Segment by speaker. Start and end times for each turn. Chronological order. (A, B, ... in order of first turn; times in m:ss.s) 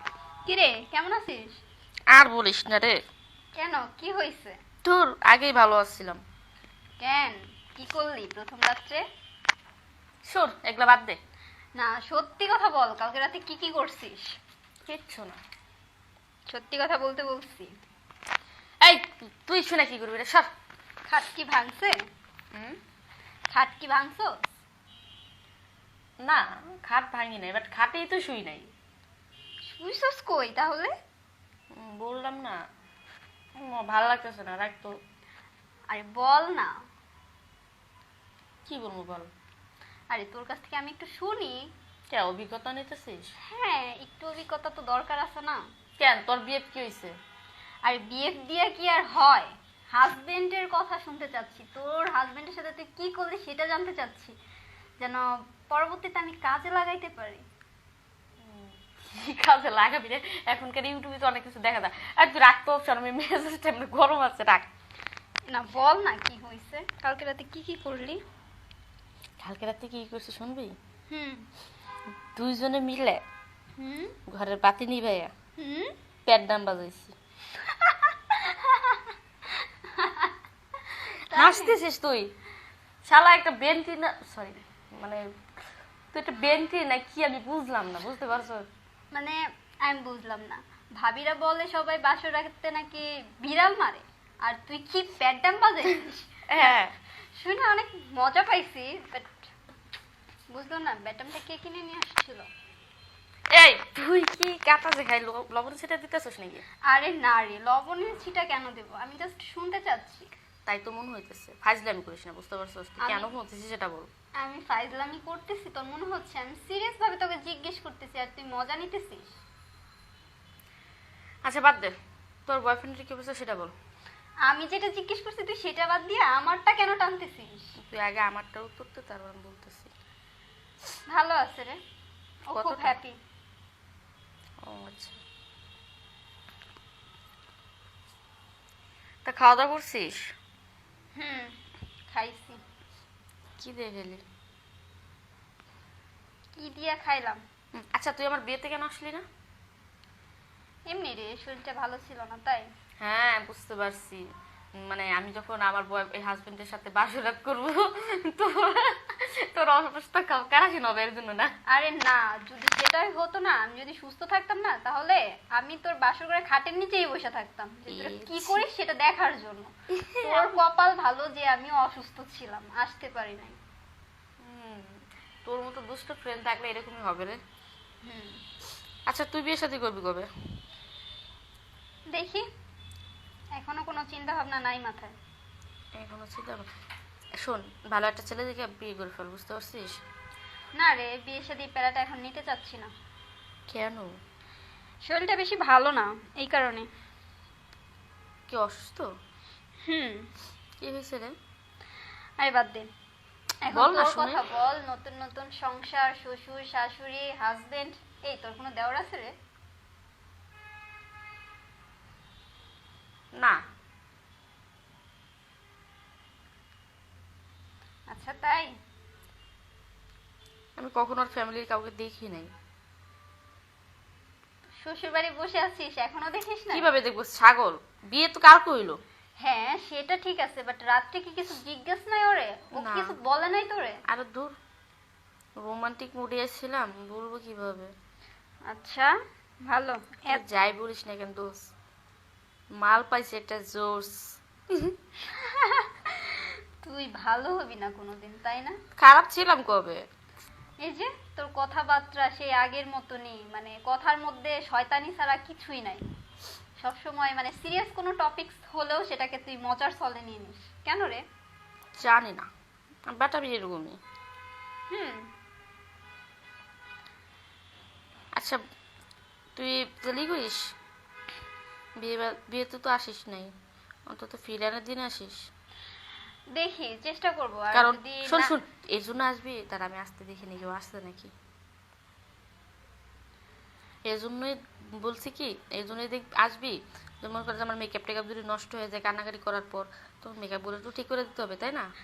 0:00.5-0:01.6 A
0:02.1-0:03.0 B
0:03.6-0:04.6 A
0:04.8-0:06.2 B
0:07.0-0:09.0 A
0:10.3-0:11.2 B
0:11.8-0:14.4 A
0:14.9-0:15.4 B
0:16.5-0:17.7 A
0:18.8-0:20.5 B
0:21.1-0:22.0 A
0:23.5-0:24.5 A
0:26.2-0:28.7 B
0:29.6-0:30.9 A
0:31.7-0:32.6 B
0:33.6-0:34.9 B
0:35.9-0:36.7 A
0:38.7-0:39.3 B
0:40.1-0:41.7 A
0:42.1-0:43.3 B
0:43.5-0:45.6 A
0:46.0-0:47.1 B
0:47.8-0:54.3 A
0:55.0-0:57.4 A
0:58.4-1:04.7 B
1:05.5-1:08.2 A
1:09.4-1:10.7 B
1:11.1-1:11.5 A
1:12.3-1:13.2 B
1:13.8-1:14.2 A
1:14.3-1:15.3 B
1:15.6-1:16.0 A
1:16.3-1:17.2 B
1:17.7-1:20.3 A
1:21.3-1:21.8 A
1:21.3-1:22.3 B
1:23.0-1:25.2 B
1:26.1-1:28.7 B
1:29.1-1:36.8 A
1:36.5-1:36.9 B
1:37.4-1:39.3 A
1:40.5-1:42.5 A
1:43.5-1:46.6 B
1:46.9-1:50.3 A
1:50.7-1:54.1 B
1:53.0-1:53.3 A
1:54.4-1:59.4 A
2:01.4-2:01.9 B
2:02.5-2:03.7 B
2:04.5-2:07.7 A
2:07.8-2:09.9 B
2:11.1-2:11.8 A
2:12.5-2:13.2 A
2:12.6-2:13.0 B
2:14.7-2:15.2 B
2:19.3-2:20.2 B
2:21.2-2:21.6 A
2:22.1-2:22.6 A
2:23.6-2:24.2 B
2:26.6-2:27.4 A
2:27.8-2:29.2 B
2:30.9-2:32.6 A
2:33.0-2:34.2 B
2:34.8-2:41.5 B
2:41.7-2:53.6 A
2:47.9-2:48.6 B
2:50.0-2:50.5 B
2:54.4-2:57.4 B
2:58.0-2:58.4 A
2:59.1-3:00.3 B
3:02.1-3:02.4 A
3:03.6-3:05.1 A
3:06.0-3:06.7 B
3:07.4-3:10.0 B
3:10.8-3:12.9 A
3:13.7-3:14.1 B
3:15.1-3:16.9 A
3:18.5-3:19.1 B
3:19.9-3:20.3 A
3:20.8-3:21.4 B
3:22.4-3:22.9 A
3:23.7-3:29.3 A
3:23.7-3:24.4 B
3:38.1-3:38.7 A
3:40.8-3:42.5 B
3:44.8-3:46.9 A
3:46.7-3:49.0 B
3:49.4-3:54.0 A
3:52.8-3:53.2 B
3:54.1-3:54.6 B
3:55.6-3:57.9 B
3:58.7-3:59.1 A
3:59.7-4:00.4 A
4:00.3-4:01.7 B
4:02.8-4:04.2 B
4:05.3-4:08.8 A
4:09.0-4:10.0 B
4:10.8-4:16.0 A
4:16.8-4:21.2 A
4:22.0-4:22.5 B
4:23.1-4:24.0 B
4:24.9-4:25.2 A
4:29.6-4:30.7 B
4:32.0-4:33.5 B
4:34.1-4:35.5 B
4:36.6-4:38.5 A
4:37.7-4:41.3 B
4:44.1-4:51.9 B